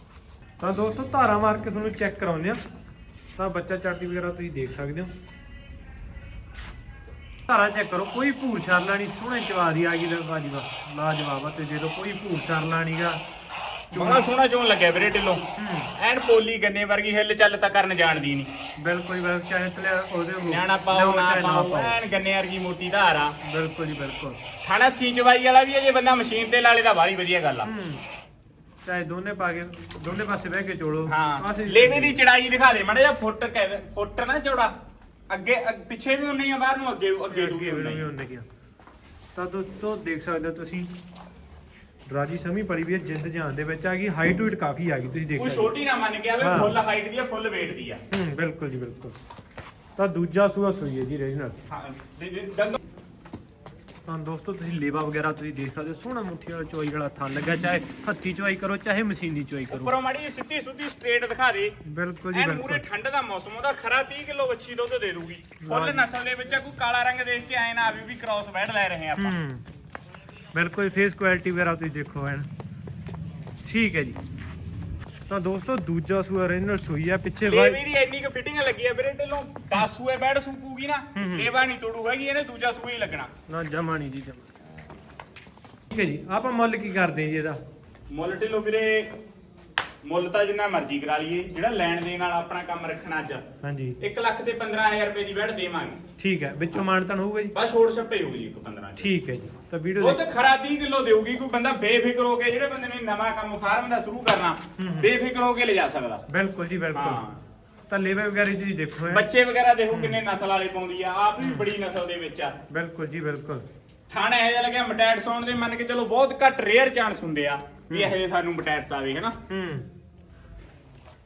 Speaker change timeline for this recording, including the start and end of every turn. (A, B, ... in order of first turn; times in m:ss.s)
0:00.6-0:02.6 A
0:03.4-0:05.1 A
0:07.5-0:13.2 A
0:13.9-0:14.2 A
0:13.9-0:15.4 B
0:15.6-0:15.9 A
0:15.9-0:18.5 B
0:18.8-0:22.0 A
0:20.4-0:23.4 B
0:23.4-0:24.4 A
0:24.6-0:27.7 B
0:27.6-0:28.0 A
0:28.8-0:32.2 A
0:31.1-0:34.8 B
0:35.3-0:38.1 B
0:37.3-0:38.4 A
0:39.3-0:40.9 A
0:42.1-0:45.7 A
0:45.4-0:48.0 B
0:46.4-0:46.8 A
0:48.1-0:49.2 A
0:50.0-0:51.6 A
0:51.7-0:52.8 B
0:54.1-0:59.9 A
0:59.7-1:01.8 B
1:01.8-1:02.8 A
1:02.3-1:09.4 B
1:05.6-1:06.0 A
1:09.2-1:09.6 A
1:10.5-1:12.5 A
1:13.6-1:14.2 A
1:15.3-1:17.8 A
1:17.4-1:23.3 B
1:21.1-1:21.5 A
1:23.5-1:24.5 A
1:25.9-1:27.6 A
1:28.1-1:29.2 B
1:30.0-1:33.4 B
1:33.6-1:34.0 A
1:34.0-1:36.0 B
1:36.2-1:37.5 A
1:37.5-1:39.1 B
1:39.0-1:40.2 A
1:40.0-1:46.2 B
1:44.8-1:45.1 A
1:46.3-1:47.2 A
1:46.9-1:47.4 B
1:47.9-1:49.3 A
1:49.1-1:52.5 B
1:49.9-1:50.2 A
1:51.4-1:51.7 A
1:52.7-1:53.6 A
1:54.1-1:59.4 B
1:59.5-1:59.8 A